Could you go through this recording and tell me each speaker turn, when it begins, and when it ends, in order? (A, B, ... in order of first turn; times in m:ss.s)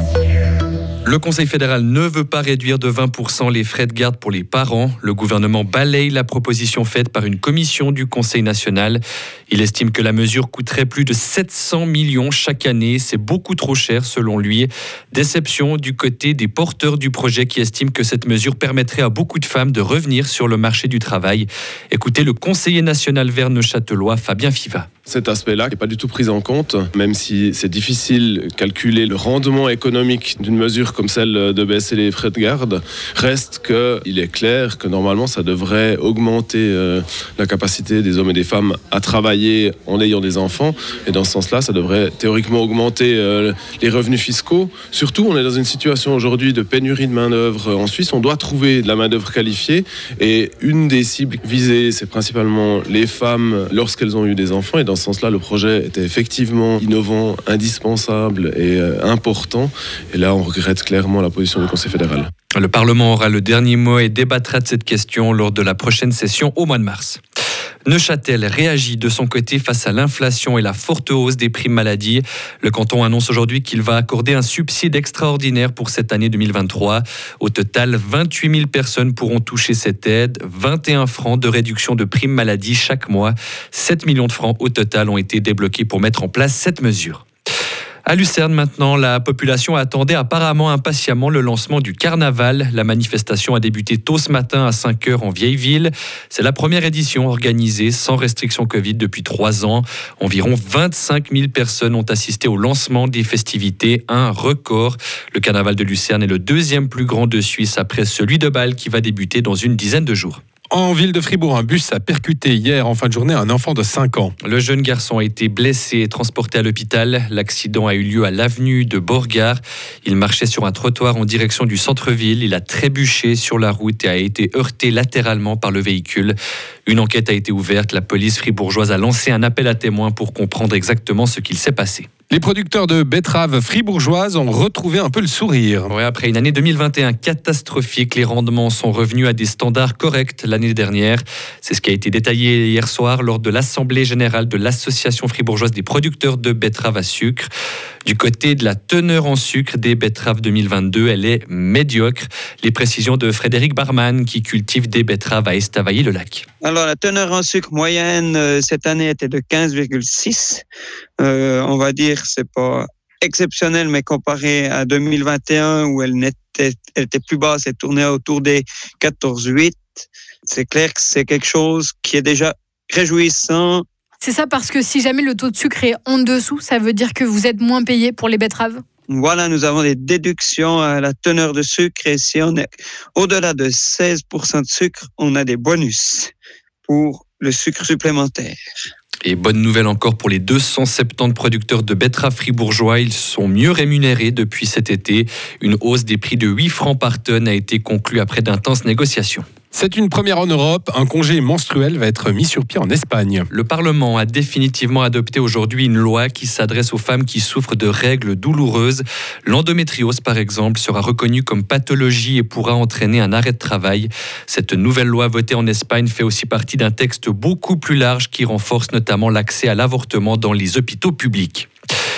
0:01.0-0:24.9 A
0:25.1-1:02.3 B
1:02.6-1:07.2 A
1:07.8-1:27.2 A
1:28.0-1:50.4 A
1:50.7-1:54.3 C
1:54.4-2:12.1 A
2:12.3-2:15.9 C
2:15.9-2:27.5 A
2:28.0-2:36.4 A
2:36.6-2:40.6 D
2:41.2-2:53.8 D
2:54.2-2:58.8 E
2:59.1-3:02.6 D
3:03.2-3:06.3 D
3:06.8-3:08.6 D
3:09.2-3:19.4 A
3:19.7-3:23.5 C
3:23.5-3:41.7 A